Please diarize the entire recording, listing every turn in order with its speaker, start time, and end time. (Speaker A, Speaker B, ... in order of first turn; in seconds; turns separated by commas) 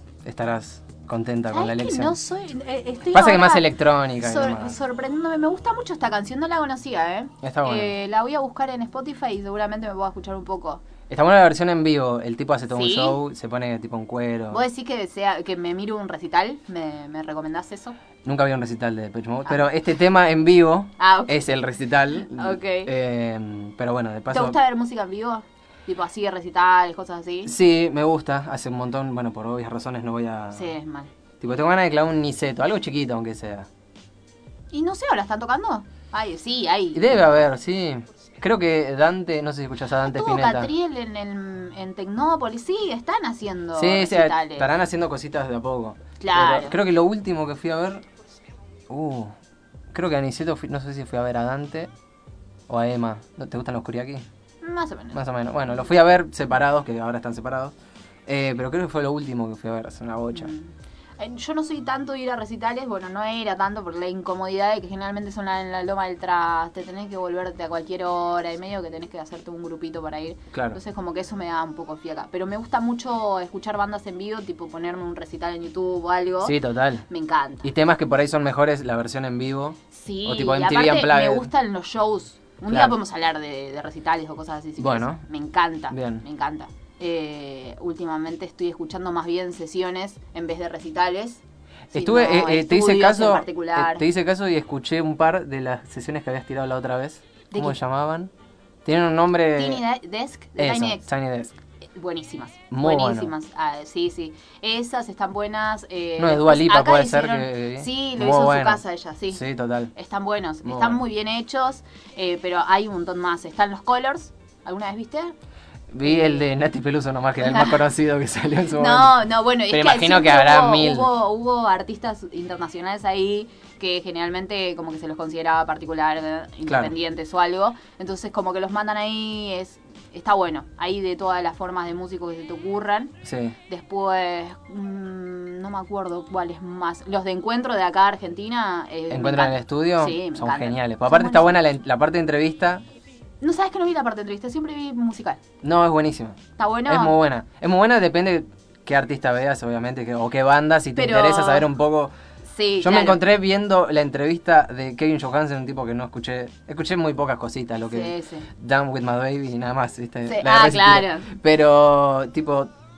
Speaker A: 0.2-2.2, Speaker B: 1.5-10.8, Speaker A: 3.1-4.7, Speaker A: 7.4-7.9, Speaker A: 11.1-14.6, Speaker B: 12.7-13.2, Speaker B: 14.5-17.9, Speaker A: 18.2-24.6, Speaker B: 21.0-21.4, Speaker B: 22.3-22.9, Speaker B: 24.3-27.5, Speaker A: 27.4-30.7, Speaker B: 30.5-31.1, Speaker A: 31.4-33.7, Speaker B: 34.7-37.0, Speaker A: 36.9-40.7, Speaker B: 40.0-44.7, Speaker A: 43.8-48.0, Speaker B: 46.2-46.8, Speaker A: 48.9-49.3, Speaker A: 49.9-51.9, Speaker A: 52.7-54.2, Speaker B: 54.6-55.2, Speaker A: 55.1-57.7, Speaker A: 58.2-60.5, Speaker B: 60.3-76.6, Speaker A: 70.5-70.8, Speaker A: 76.4-77.0, Speaker B: 77.1-77.7, Speaker A: 77.6-81.5, Speaker B: 79.9-91.4, Speaker A: 82.7-83.0, Speaker A: 84.8-85.2, Speaker A: 85.9-86.2, Speaker A: 91.9-98.3, Speaker B: 91.9-94.0, Speaker B: 97.5-97.8, Speaker A: 98.8-99.8, Speaker B: 99.5-101.1, Speaker A: 100.6-101.5, Speaker B: 101.9-109.4, Speaker A: 102.7-103.3, Speaker A: 106.2-109.9, Speaker B: 109.9-115.3, Speaker A: 110.6-111.0, Speaker A: 115.9-121.1, Speaker B: 116.0-116.4, Speaker B: 117.4-117.8, Speaker B: 118.7-133.1, Speaker A: 126.7-126.9, Speaker A: 133.2-133.6, Speaker B: 133.7-141.6, Speaker A: 139.1-142.8, Speaker B: 143.4-145.4, Speaker A: 145.6-152.1, Speaker B: 146.6-147.1, Speaker B: 150.9-151.7, Speaker B: 152.5-153.2, Speaker A: 152.8-162.7, Speaker B: 157.9-158.5, Speaker B: 160.3-161.3